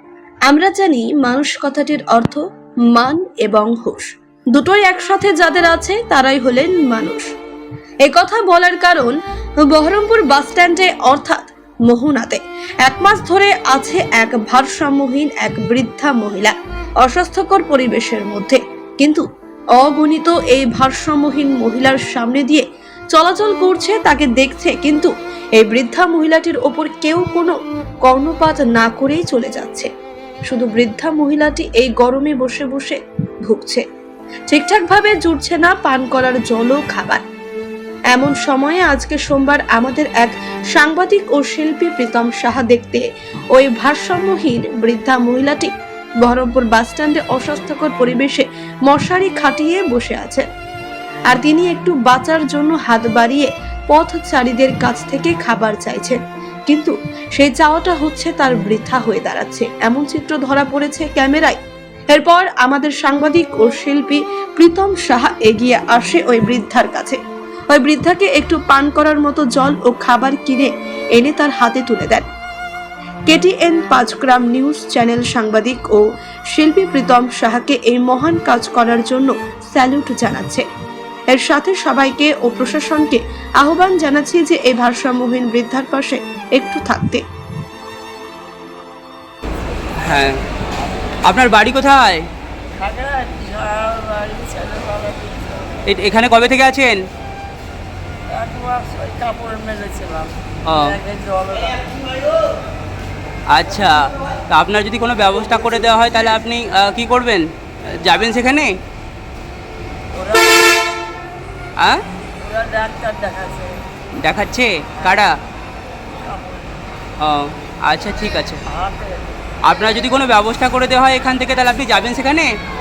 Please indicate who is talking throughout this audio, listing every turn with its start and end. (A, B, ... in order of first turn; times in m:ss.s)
0:00.5-0:02.4 A
0:02.9-0:07.3 A
0:08.0-0:09.1 A
0:09.6-0:19.2 A
0:19.8-0:29.9 A
0:30.5-0:33.8 A
0:34.5-0:37.2 A
0:38.1-0:45.7 A
0:46.2-0:50.4 A
0:51.3-1:01.6 A
1:02.1-1:07.2 A
1:07.7-1:12.2 A
1:13.3-1:16.0 A
1:16.5-1:20.6 A
1:21.3-1:27.2 A
1:30.0-1:30.4 B
1:31.3-1:32.2 B
1:32.8-1:35.8 C
1:35.9-1:37.0 B
1:38.3-1:42.0 C
1:40.7-1:41.0 B
1:43.5-1:47.4 B
1:48.0-1:48.7 B
1:50.1-1:50.8 C
1:52.4-1:53.8 C
1:54.2-1:55.3 B
1:55.0-1:55.3 C
1:56.2-1:56.8 C
1:57.2-1:58.6 B
1:58.7-1:59.3 C
1:59.6-2:02.5 B